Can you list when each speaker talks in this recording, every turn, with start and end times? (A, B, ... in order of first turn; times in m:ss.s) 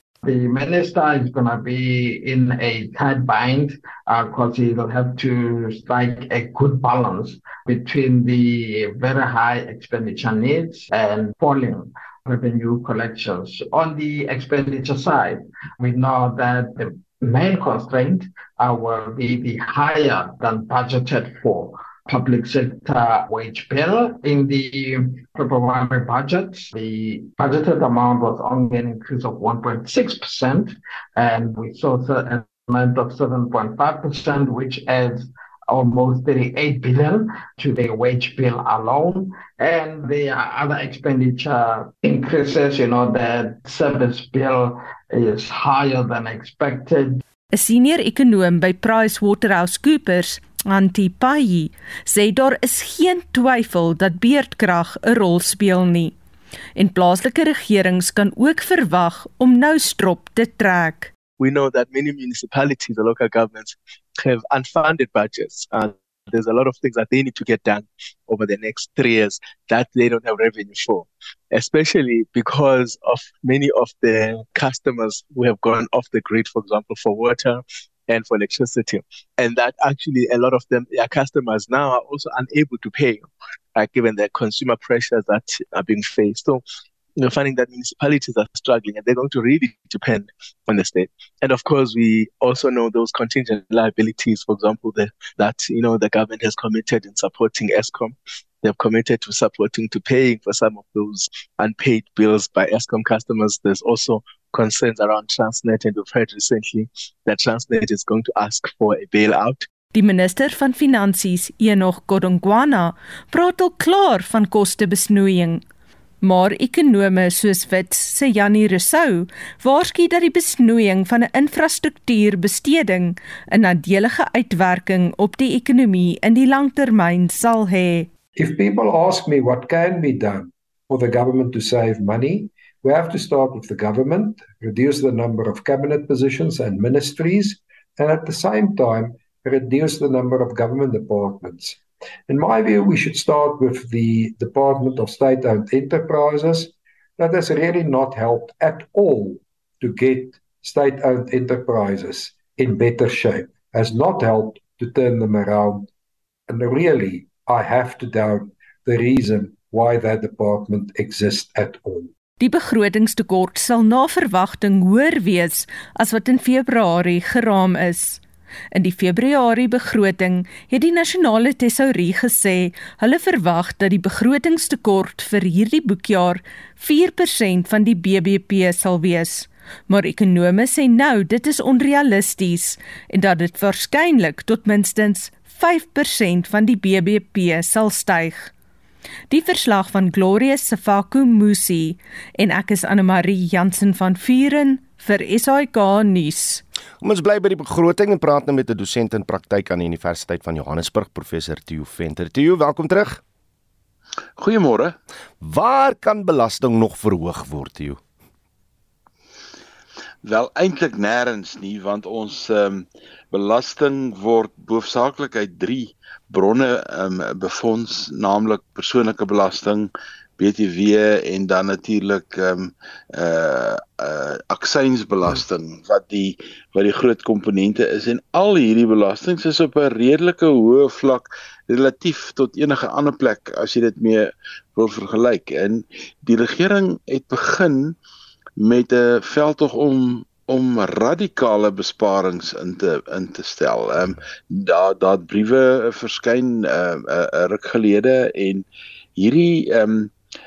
0:00.2-0:47.2 A
0:47.5-0:56.2 B
0:56.8-1:01.1 B
1:01.4-1:26.6 C
1:27.2-1:49.7 C
1:49.9-1:55.6 B
1:56.2-2:08.1 B
2:08.4-2:35.9 D
2:36.5-2:42.1 D
2:42.4-2:48.2 B
2:48.7-3:08.5 B
3:09.3-3:16.6 B
3:17.0-3:23.2 E
3:24.4-3:25.0 F
3:25.4-3:28.0 E
3:30.2-3:58.0 F
3:58.6-4:08.6 F
4:09.2-4:10.1 F